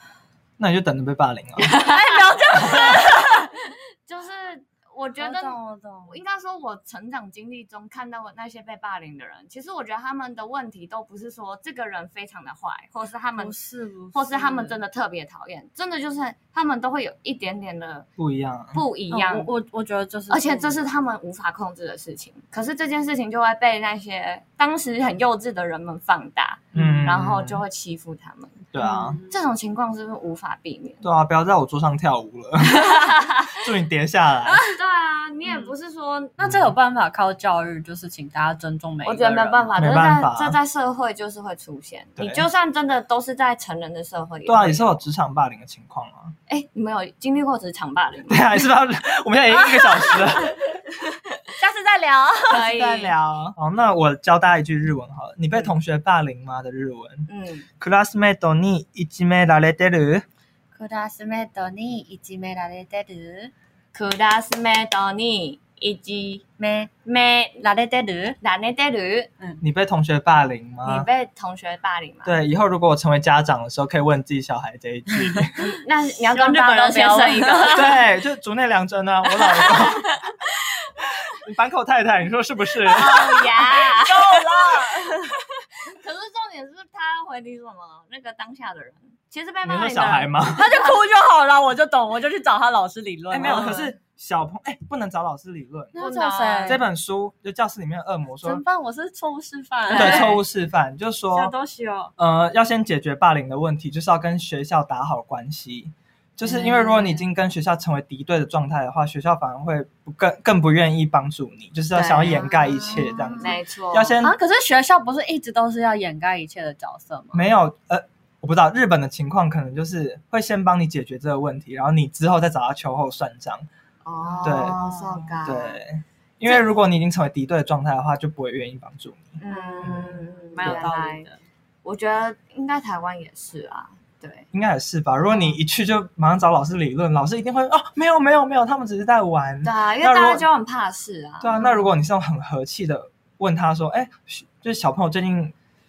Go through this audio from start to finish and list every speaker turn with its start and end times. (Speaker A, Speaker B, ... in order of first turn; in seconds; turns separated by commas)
Speaker A: 0.6-1.7, Speaker B: 1.7-13.6, Speaker C: 1.7-3.5, Speaker C: 5.2-6.2, Speaker C: 13.4-14.8, Speaker B: 14.1-18.1, Speaker A: 18.2-18.8, Speaker B: 18.7-19.5, Speaker C: 19.1-20.8, Speaker B: 20.3-28.6, Speaker A: 26.7-27.6, Speaker A: 28.7-29.2, Speaker C: 28.8-29.3, Speaker B: 29.3-31.0, Speaker A: 31.0-34.6, Speaker B: 32.7-33.6, Speaker C: 34.5-34.7, Speaker B: 34.7-36.4, Speaker C: 35.5-35.7, Speaker C: 36.4-39.7, Speaker A: 36.4-36.7, Speaker B: 39.0-45.0, Speaker A: 39.8-40.6, Speaker A: 42.2-42.4, Speaker A: 44.5-46.3, Speaker B: 46.5-48.5, Speaker A: 48.3-50.6, Speaker B: 50.0-50.4, Speaker B: 51.0-51.4, Speaker C: 51.6-53.1, Speaker B: 52.5-53.2, Speaker A: 52.9-57.3, Speaker B: 57.3-57.7, Speaker A: 57.8-60.2, Speaker C: 60.7-63.5, Speaker B: 63.9-66.4, Speaker C: 66.6-66.9, Speaker B: 67.0-67.7, Speaker C: 67.6-68.4, Speaker B: 68.4-69.3, Speaker A: 69.6-71.1, Speaker B: 70.8-72.4, Speaker A: 72.2-75.6, Speaker B: 75.6-78.0, Speaker C: 76.2-77.9, Speaker A: 77.7-80.2, Speaker B: 79.5-81.0, Speaker A: 81.3-83.4, Speaker B: 82.9-90.9, Speaker C: 83.6-85.3, Speaker A: 89.6-90.7, Speaker C: 90.5-93.9, Speaker A: 93.3-96.0, Speaker B: 93.5-93.8, Speaker C: 95.9-96.8, Speaker B: 96.0-96.8, Speaker A: 96.7-98.6, Speaker C: 98.4-100.4, Speaker B: 99.9-100.4, Speaker A: 99.9-101.5, Speaker C: 101.3-102.1, Speaker A: 102.2-114.4, Speaker B: 106.5-107.0, Speaker C: 106.5-107.1, Speaker B: 111.9-114.2, Speaker C: 112.5-113.5, Speaker C: 114.2-117.6, Speaker A: 117.3-123.7, Speaker B: 124.0-125.8, Speaker C: 124.3-125.3, Speaker A: 124.4-124.8, Speaker A: 125.4-130.9, Speaker B: 129.4-131.3, Speaker C: 129.5-131.4, Speaker B: 131.8-134.4, Speaker A: 134.5-140.4, Speaker B: 139.6-141.8, Speaker A: 141.4-145.5